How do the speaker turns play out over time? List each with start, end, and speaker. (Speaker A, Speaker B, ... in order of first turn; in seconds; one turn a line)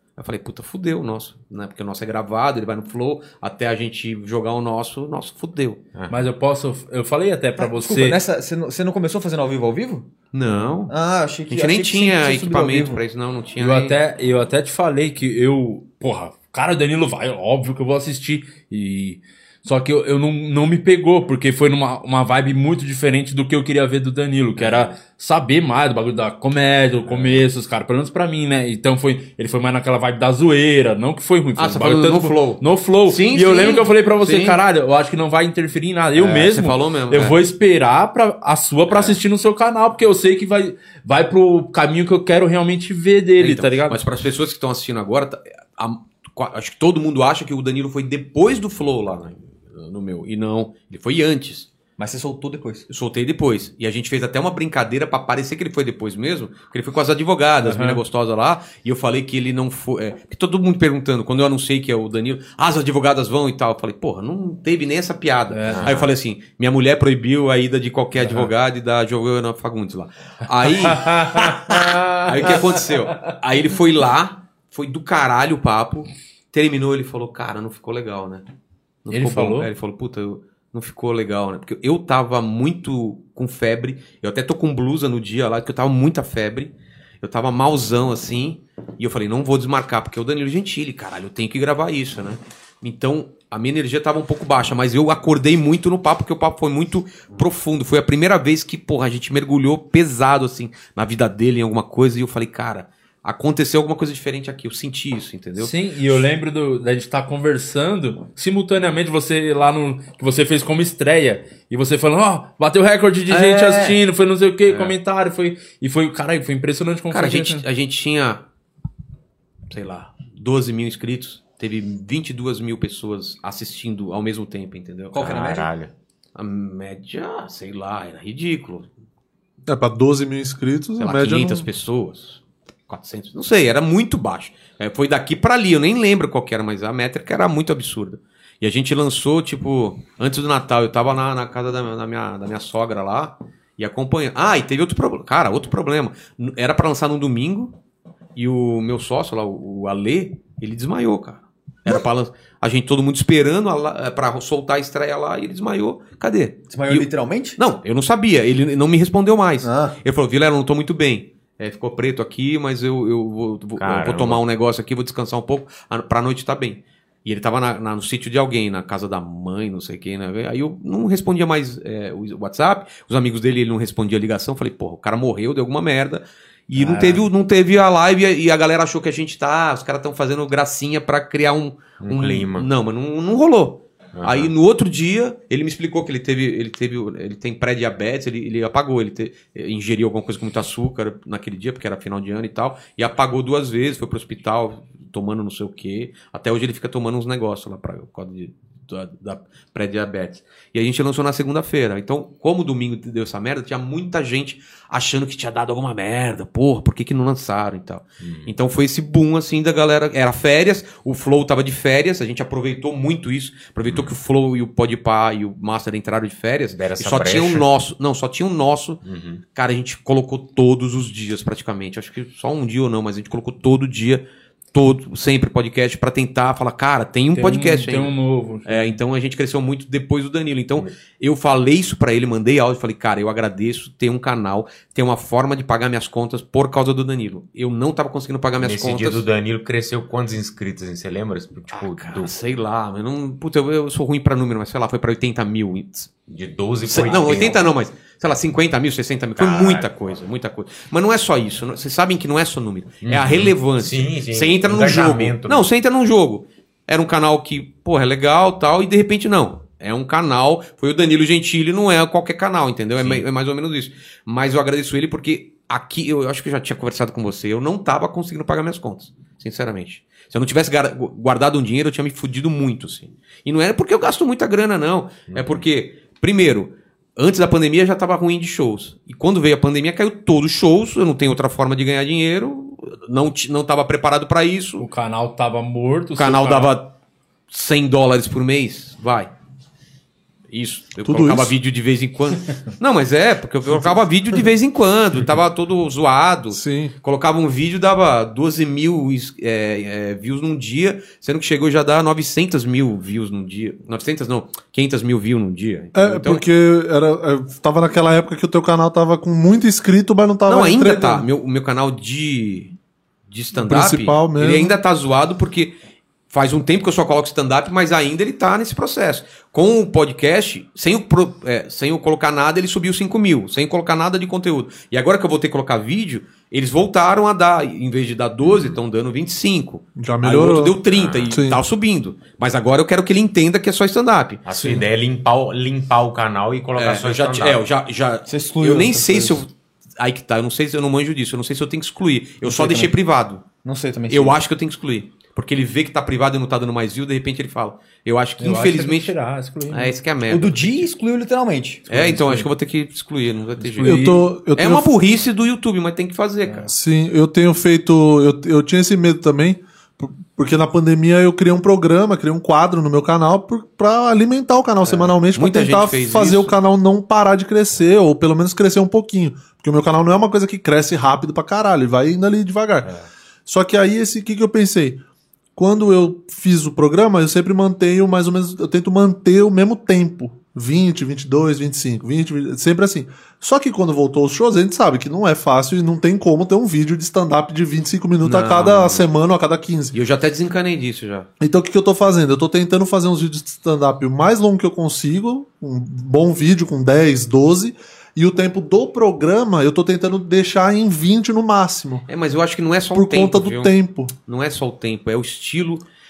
Speaker A: 0.2-5.8
Speaker B: 5.9-6.2
Speaker C: 6.1-8.2
Speaker D: 7.6-10.1
Speaker A: 10.3-10.9
Speaker D: 10.9-13.0
Speaker A: 11.5-14.0
Speaker C: 13.6-44.0
Speaker A: 31.6-34.6
Speaker A: 36.2-37.4
Speaker A: 38.9-39.2
Speaker A: 43.4-51.7
Speaker D: 52.0-52.9
Speaker A: 52.9-78.4
Speaker C: 57.6-58.0
Speaker C: 65.5-65.9
Speaker B: 65.7-66.1
Speaker C: 68.2-68.5
Speaker C: 70.6-73.3
Speaker A: 79.0-106.2
Speaker C: 79.1-79.7
Speaker C: 105.6-117.6
Speaker A: 113.3-114.0
Speaker A: 117.1-118.4
Speaker A: 119.7-125.3
Speaker D: 125.1-125.7
Speaker B: 125.2-125.9
Speaker A: 126.3-128.9
Speaker E: 129.7-131.7
Speaker A: 131.0-147.7
Speaker A: 148.4-219.0
Speaker D: 156.7-157.6
Speaker D: 159.6-160.0
Speaker B: 163.8-164.4
Speaker C: 176.8-177.2
Speaker B: 182.0-182.7
Speaker B: 184.2-184.5
Speaker B: 208.2-208.5
Speaker B: 213.9-214.2
Speaker B: 216.7-217.7
Speaker B: 219.0-219.4
Speaker A: 219.5-228.1
Speaker C: 227.3-229.0
Speaker A: 228.7-239.2
Speaker B: 238.6-242.3
Speaker A: 241.7-246.1
Speaker B: 246.3-247.7
Speaker A: 246.9-284.9
Speaker B: 249.4-249.9
Speaker B: 253.0-255.7
Speaker B: 263.0-263.2
Speaker B: 275.3-275.6
Speaker C: 284.8-286.7
Speaker A: 286.2-286.9
Speaker A: 287.5-289.3
Speaker A: 290.5-306.4
Speaker E: 291.0-291.5
Speaker E: 296.5-296.9
Speaker E: 305.9-311.2
Speaker A: 310.5-312.7
Speaker A: 313.3-315.8
Speaker E: 313.6-314.8
Speaker A: 316.3-334.8
Speaker B: 328.4-328.8
Speaker E: 330.0-331.6
Speaker B: 330.9-331.4
Speaker B: 334.4-337.6
Speaker A: 336.8-343.4
Speaker D: 338.3-339.4
Speaker D: 342.4-342.9
Speaker D: 343.6-344.4
Speaker A: 344.1-349.1
Speaker C: 348.4-350.0
Speaker A: 349.7-350.9
Speaker D: 350.3-352.1
Speaker A: 351.9-356.7
Speaker C: 351.9-352.5
Speaker C: 353.6-354.3
Speaker E: 353.8-354.9
Speaker E: 356.7-372.9
Speaker A: 364.8-366.5
Speaker E: 373.5-375.0
Speaker E: 375.6-389.9
Speaker A: 388.2-389.1
Speaker A: 389.9-391.3
Speaker E: 391.4-402.1
Speaker A: 402.1-405.9
Speaker E: 402.9-404.1